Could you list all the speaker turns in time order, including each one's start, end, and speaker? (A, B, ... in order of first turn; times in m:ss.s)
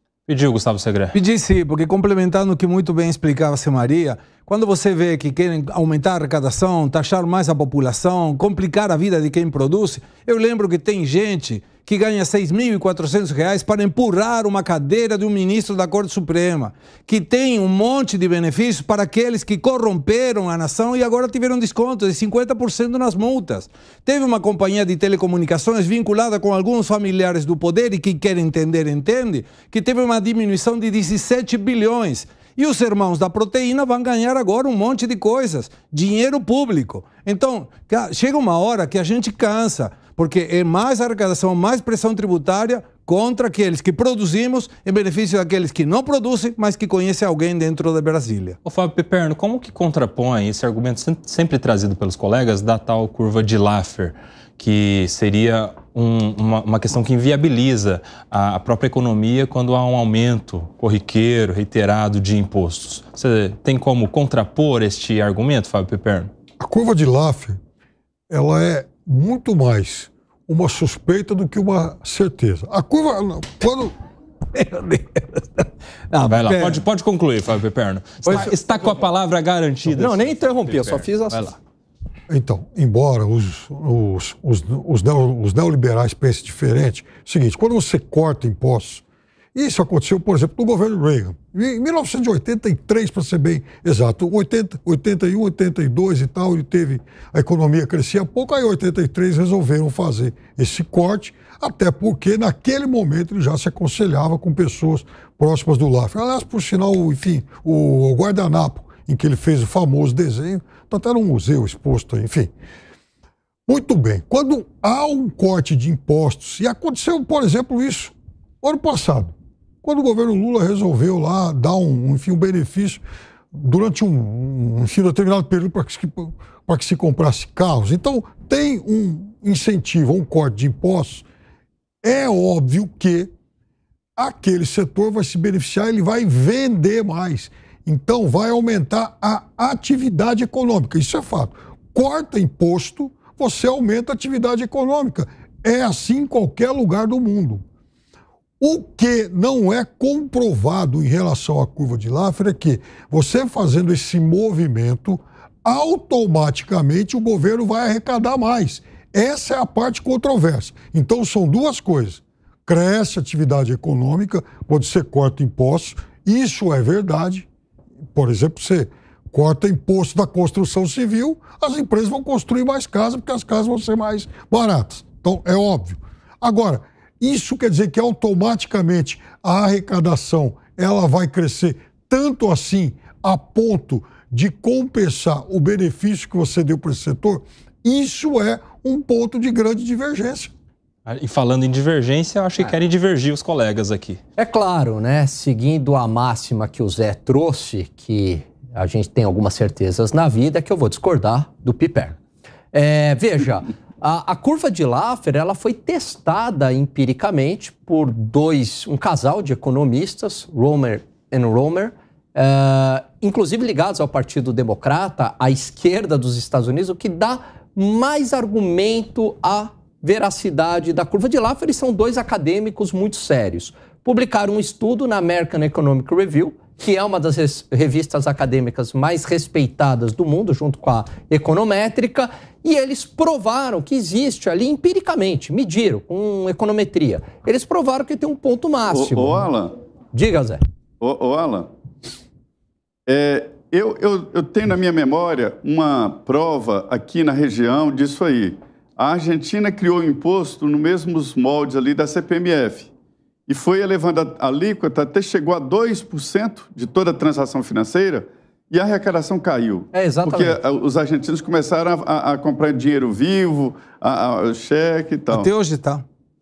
0:00.3-0:01.2 A
0:01.1-0:48.6 B
0:48.6-1:06.3 A
1:06.6-1:07.6 C
1:08.3-1:13.9 C
1:14.5-1:16.8 B
1:16.2-1:21.6 A
1:18.2-1:18.6 B
1:19.9-1:21.6 D
1:22.3-1:29.0 C
1:29.6-1:52.5 C
1:53.7-2:11.2 C
2:12.0-2:13.3 C
2:14.2-2:27.6 C
2:28.6-2:47.5 C
2:48.1-3:10.5 C
3:11.1-3:14.2 A
3:14.4-3:22.2 D
3:22.7-3:59.5 D
3:58.9-3:59.7 E
4:00.1-4:00.6 D
4:01.0-4:01.7 E
4:03.1-4:12.9 E
4:13.5-4:25.5 E
4:19.9-4:20.6 D
4:25.3-4:26.0 B